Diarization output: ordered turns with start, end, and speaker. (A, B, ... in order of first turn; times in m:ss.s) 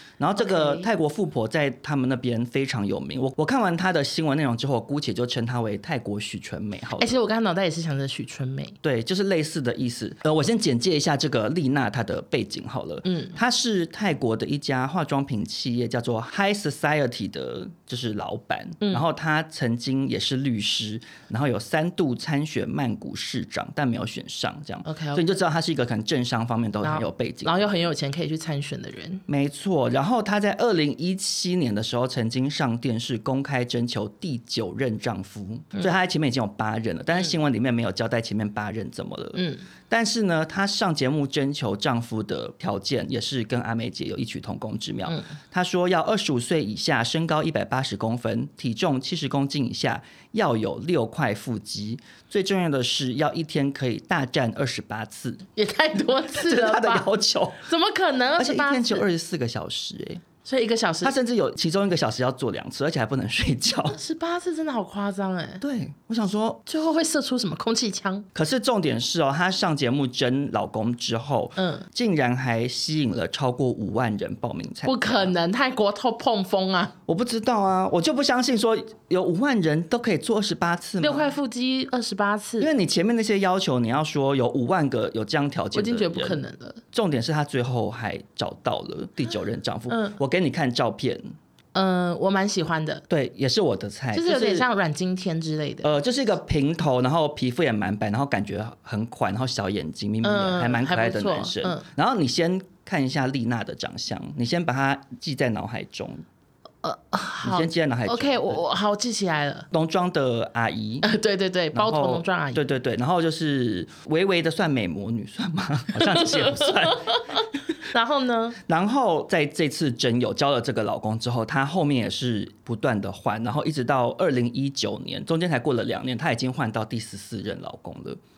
0:00.2-0:07.1 A
0:00.4-0:00.9 B
0:07.0-0:08.8 B
0:08.8-0:27.9 A
0:13.0-0:13.4 B
0:18.8-0:19.0 B
0:24.8-0:25.3 B
0:26.8-0:29.2 B
0:29.3-0:55.5 A
0:39.3-0:39.6 B
0:55.6-0:57.1 B
0:56.3-0:57.6 A
0:57.6-0:59.0 B
0:58.4-1:00.2 A
1:00.4-1:01.1 B
1:01.0-1:04.0 A
1:03.9-1:05.6 B
1:05.6-1:06.6 A
1:06.6-1:08.3 B
1:08.3-1:15.3 A
1:11.6-1:11.8 B
1:14.8-1:16.9 B
1:17.0-1:21.3 A
1:21.0-1:22.7 B
1:22.6-1:31.2 A
1:25.7-1:26.8 B
1:31.7-1:33.0 B
1:33.1-1:34.7 A
1:34.1-1:35.9 B
1:35.8-1:46.2 A
1:40.2-1:41.8 B
1:46.8-1:49.7 B
1:47.4-1:48.6 A
1:49.7-1:51.1 A
1:51.0-1:52.6 B
1:51.7-1:57.4 A
1:56.1-1:58.6 B
1:58.6-2:08.2 A